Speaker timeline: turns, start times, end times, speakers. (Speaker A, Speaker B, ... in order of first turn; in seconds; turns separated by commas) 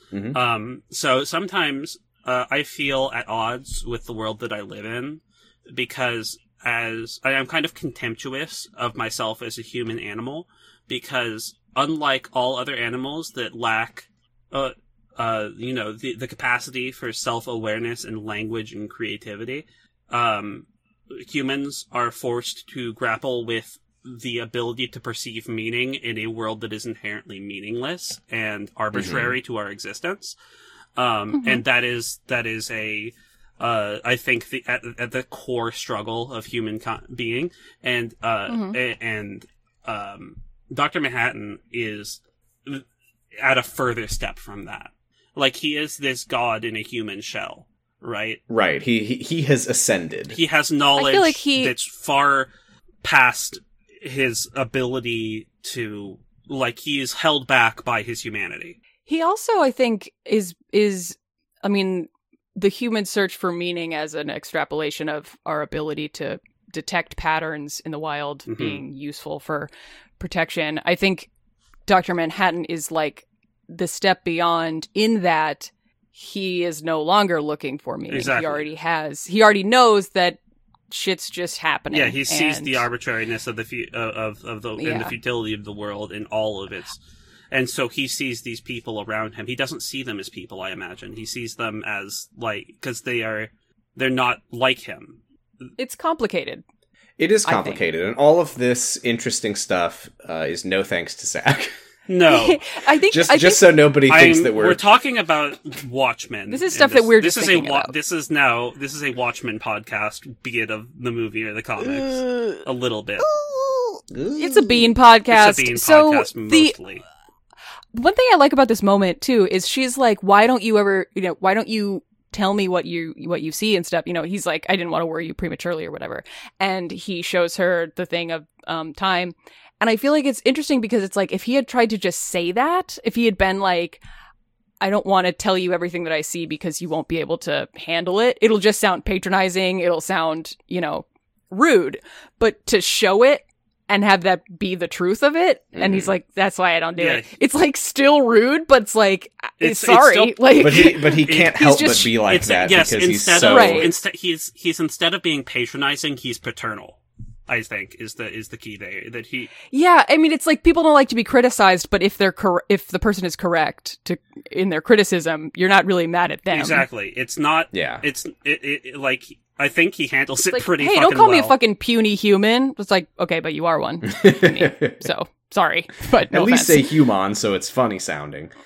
Speaker A: 0.1-0.4, Speaker B: 0.3-30.4, Speaker A: 28.9-29.4, Speaker B: 31.0-42.8, Speaker C: 31.3-31.6, Speaker C: 38.5-38.8, Speaker B: 43.4-48.4, Speaker A: 48.5-50.4, Speaker B: 50.3-52.5, Speaker C: 51.0-51.7, Speaker B: 53.0-58.8, Speaker C: 59.1-71.3, Speaker B: 68.5-68.8, Speaker C: 71.9-80.4, Speaker B: 78.1-78.6, Speaker C: 80.9-82.9, Speaker B: 81.9-87.0, Speaker C: 84.8-85.2, Speaker B: 87.5-95.2, Speaker C: 95.8-96.6, Speaker A: 97.2-101.7, Speaker C: 97.5-97.9, Speaker B: 102.1-102.6, Speaker C: 102.3-103.7, Speaker A: 103.1-104.8, Speaker B: 104.1-113.3, Speaker C: 106.5-107.9, Speaker C: 112.0-112.6, Speaker C: 113.3-116.8, Speaker A: 114.1-114.9, Speaker B: 115.3-117.0, Speaker C: 117.9-134.0, Speaker C: 134.8-152.1, Speaker A: 145.8-146.1, Speaker B: 147.0-147.3, Speaker B: 149.6-159.5, Speaker A: 150.6-153.9, Speaker C: 153.4-153.9, Speaker C: 159.7-166.8, Speaker B: 166.5-171.6, Speaker A: 167.7-168.0, Speaker C: 170.5-176.9, Speaker A: 174.1-175.0, Speaker A: 176.3-178.5